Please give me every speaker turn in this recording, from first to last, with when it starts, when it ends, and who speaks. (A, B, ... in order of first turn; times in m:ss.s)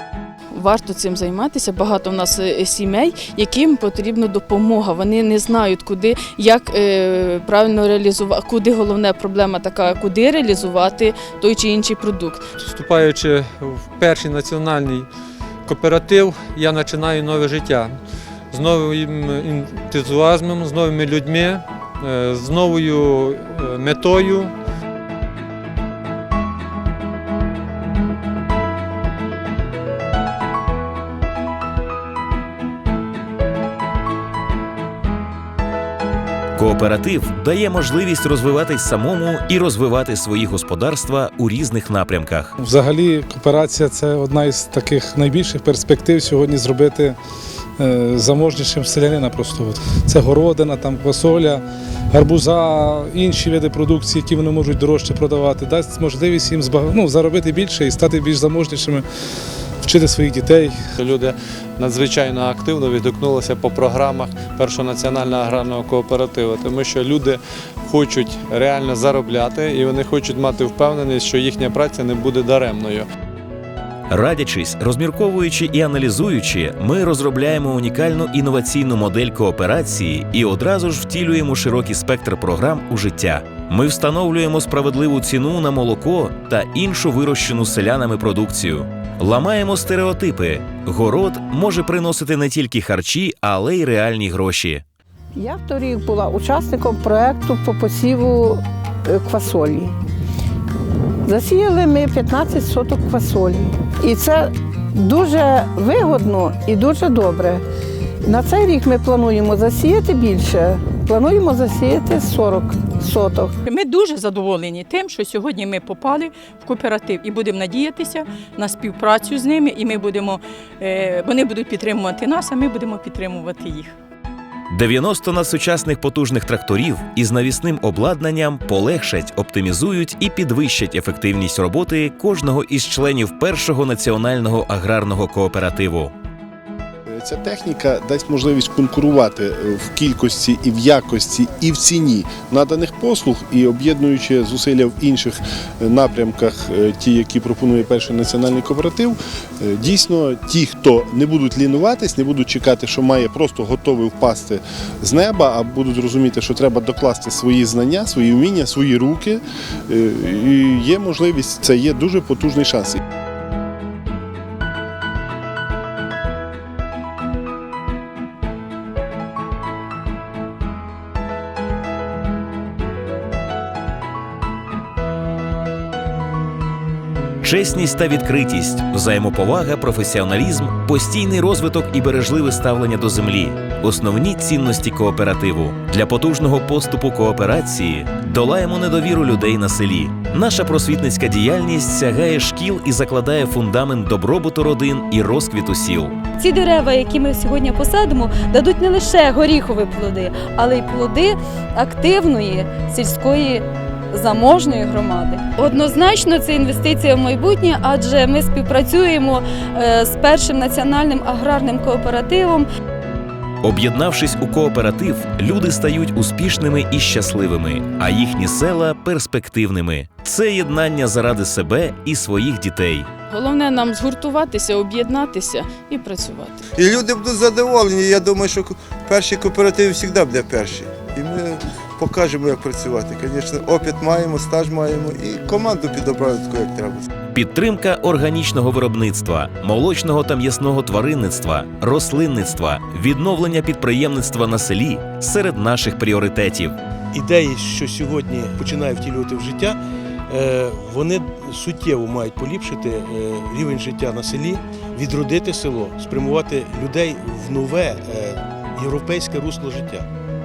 0:00.5-0:12.4 A
0:12.6-0:15.1 B
0:15.7-0:18.0 B
0:18.5-0:24.5 B
0:36.6-0:42.5 C
0:42.6-0:47.2 D
0:47.8-0:59.0 D
0:59.8-1:00.8 D
1:01.0-1:13.1 E
1:14.1-1:34.8 C
1:35.3-1:39.9 F
1:41.2-1:47.6 F
1:48.2-1:53.6 F
1:53.6-2:03.9 G
2:04.7-2:16.1 C
2:17.1-2:43.0 H
2:57.4-3:16.2 C
3:16.4-3:32.7 I
3:33.6-3:43.1 C
3:43.3-3:46.6 A
3:46.8-3:57.1 J
3:57.3-4:06.8 C
4:07.1-4:20.1 K